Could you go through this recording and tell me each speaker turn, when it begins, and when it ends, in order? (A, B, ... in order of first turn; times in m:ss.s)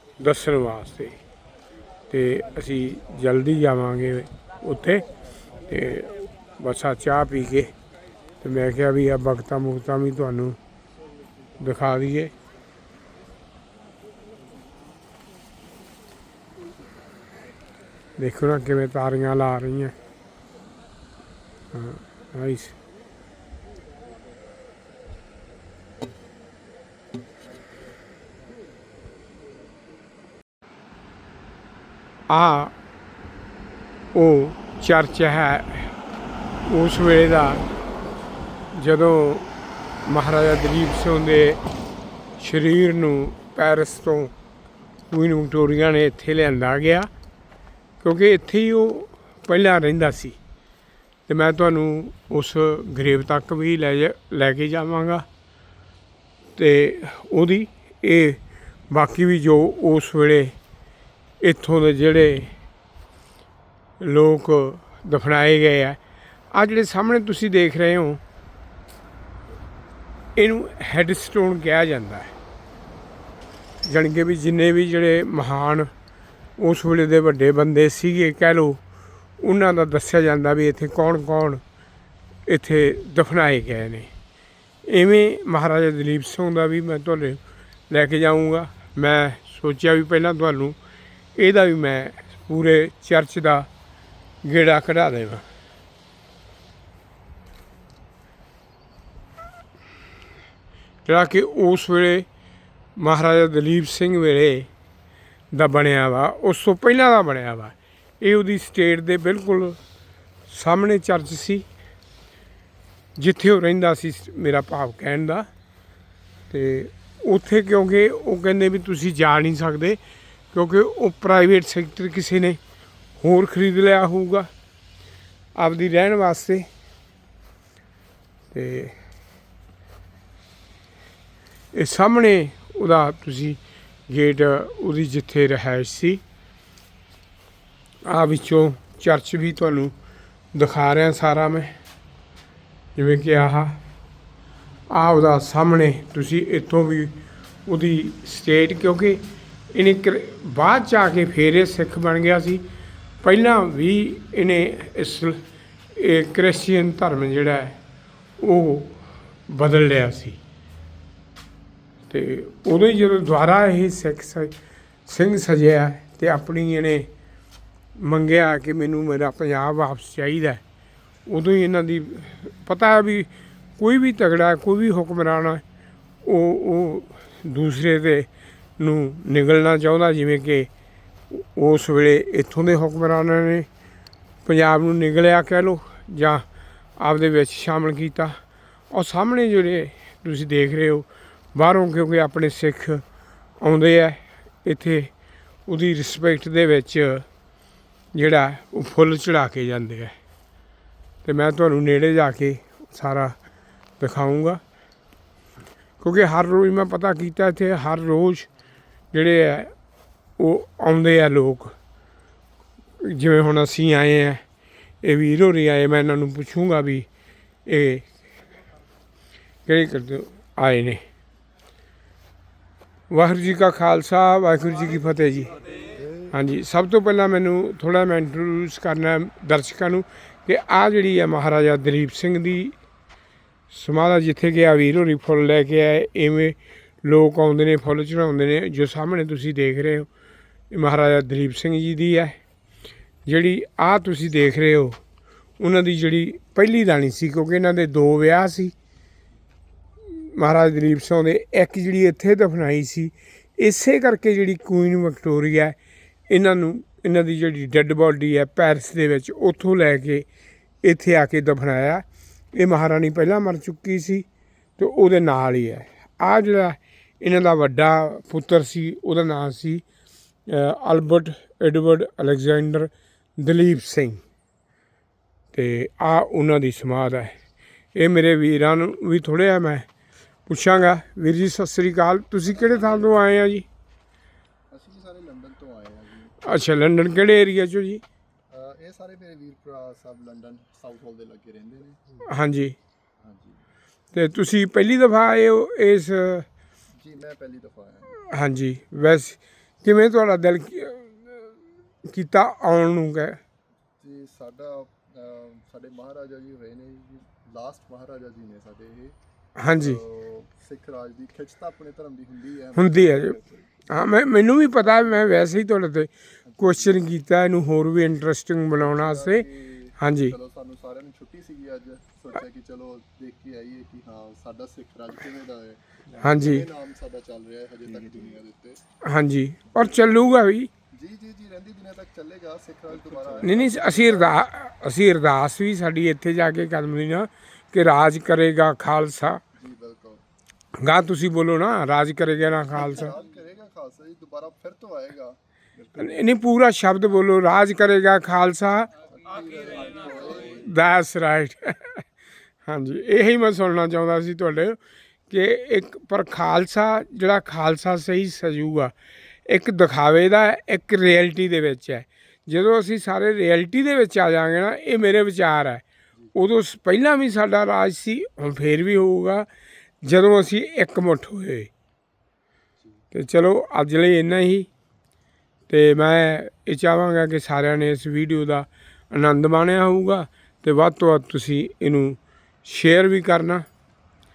0:00.2-0:01.2 A
0:02.1-0:05.0 A
0:05.7-0:07.7 A
0:08.4-0:10.6 A
0:11.6-0:12.3 A
0:18.2-0:19.9 A
0:21.7-0:22.8 A
0:32.3-0:32.7 A
0:34.1-0:35.9 A
0:36.7-0:37.6 A
0:38.7-0:39.5 A
0:40.0-0:41.6 A
0:42.4-0:44.3 A
0:45.1-0:47.1 A
0:48.0-0:50.4 A
0:51.3-0:55.2 A
0:56.6-1:00.5 A
1:01.4-1:02.5 A
1:04.0-1:06.0 A
1:06.5-1:08.2 A
1:10.4-1:12.3 A
1:13.8-1:15.9 A
1:16.6-1:18.8 A
1:19.4-1:21.6 A
1:22.5-1:24.1 A
1:24.9-1:30.8 A
1:31.4-1:33.7 A
1:34.4-1:35.4 A
1:41.0-1:42.3 A
1:43.0-1:44.7 A
1:45.5-1:49.8 A
1:50.5-1:51.7 A
1:53.2-1:55.5 A
1:56.5-2:00.0 A
2:00.5-2:02.6 A
2:03.2-2:04.5 A
2:05.5-2:06.7 A
2:08.5-2:09.0 A
2:11.7-2:16.2 A
2:18.0-2:19.9 A
2:20.5-2:21.8 A
2:23.0-2:23.8 A
2:24.9-2:32.6 A
2:33.2-2:35.4 A
2:35.9-2:37.8 A
2:38.4-2:40.4 A
2:42.1-2:44.5 A
2:45.1-2:47.1 A
2:48.0-2:50.6 A
2:51.3-2:55.6 A
2:56.2-3:00.7 A
3:01.3-3:03.7 A
3:04.4-3:06.4 A
3:07.0-3:08.4 A
3:08.9-3:13.0 A
3:13.6-3:15.1 A
3:15.6-3:17.2 A
3:18.1-3:20.1 A
3:21.2-3:23.4 A
3:24.0-3:24.6 A
3:26.0-3:28.5 A
3:29.1-3:29.7 A
3:30.4-3:31.7 A
3:33.0-3:34.4 A
3:35.0-3:37.1 A
3:37.6-3:38.1 A
3:39.6-3:41.0 A
3:43.1-3:45.7 A
3:46.2-3:52.8 A
3:53.7-4:00.1 A
4:00.7-4:02.4 A
4:03.2-4:05.0 A
4:05.6-4:08.7 A
4:10.1-4:15.8 A
4:16.3-4:20.3 A
4:20.8-4:24.2 A
4:24.8-4:29.8 A
4:30.5-4:34.2 A
4:35.5-4:37.3 A
4:37.9-4:39.9 A
4:40.5-4:43.6 A
4:44.7-4:46.4 B
4:46.4-4:48.0 A
4:48.5-4:52.0 B
4:52.3-4:52.8 A
4:53.2-4:53.6 B
4:54.1-4:56.5 A
4:57.0-4:58.2 B
4:58.2-5:01.5 A
5:02.1-5:03.4 A
5:04.0-5:09.1 B
5:09.6-5:10.0 A
5:09.8-5:13.7 B
5:12.7-5:19.4 A
5:18.8-5:28.8 B
5:20.0-5:20.4 A
5:26.2-5:26.6 A
5:29.0-5:30.7 A
5:30.9-5:34.4 B
5:33.4-5:39.4 A
5:39.6-5:40.2 B
5:40.8-5:43.1 A
5:42.7-5:46.2 B
5:46.0-5:48.9 A
5:49.1-5:50.7 B
5:50.4-5:52.0 A
5:52.6-5:54.8 A
5:55.3-5:58.9 A
5:59.4-6:05.8 A
6:06.4-6:09.5 A
6:10.0-6:11.7 A
6:13.1-6:14.7 A
6:15.7-6:23.7 A